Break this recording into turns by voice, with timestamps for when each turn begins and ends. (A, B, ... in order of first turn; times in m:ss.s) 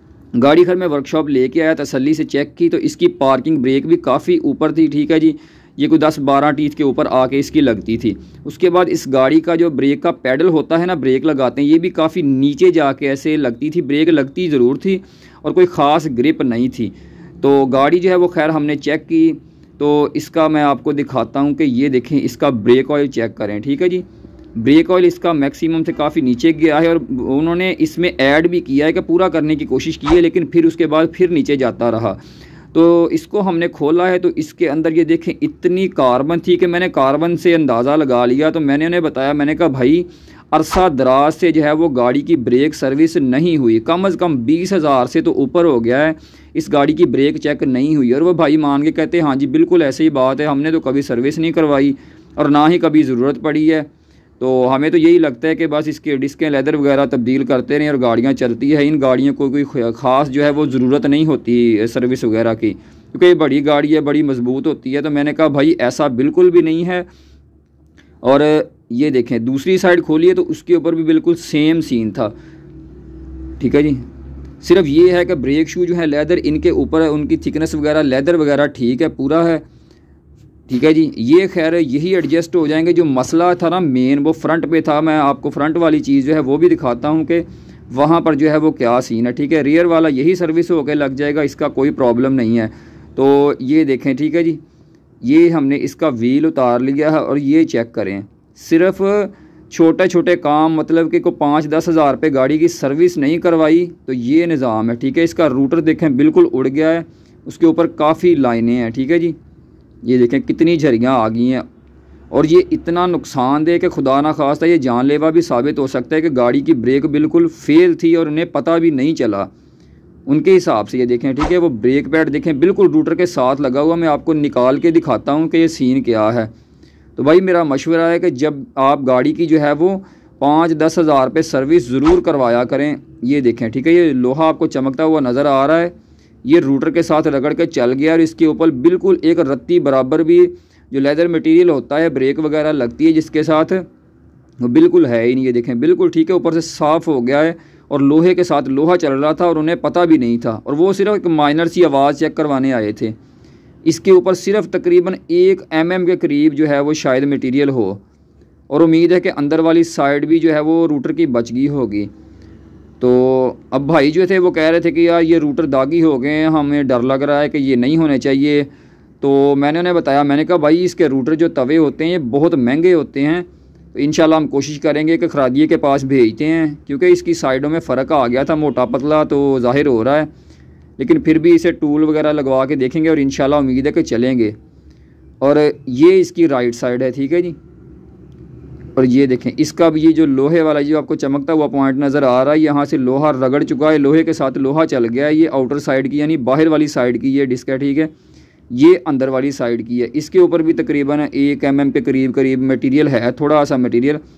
0:00.3-0:24.0 A
0:24.6-0:32.2 A
0:32.7-0:53.9 A
0:54.4-1:07.1 A
1:08.2-1:12.3 A
1:13.6-1:14.0 A
1:14.6-1:19.6 A
1:20.7-1:34.6 A
1:35.2-1:49.4 A
1:50.0-1:51.6 A
1:52.3-1:59.5 A
2:00.3-2:06.5 A
2:07.2-2:23.8 A
2:24.6-2:33.2 A
2:33.8-2:38.0 A
2:38.7-2:42.1 A
2:43.0-2:48.7 A
2:49.2-3:00.3 A
3:01.0-3:04.5 A
3:05.4-3:07.6 A
3:09.0-3:18.1 A
3:18.7-3:24.2 A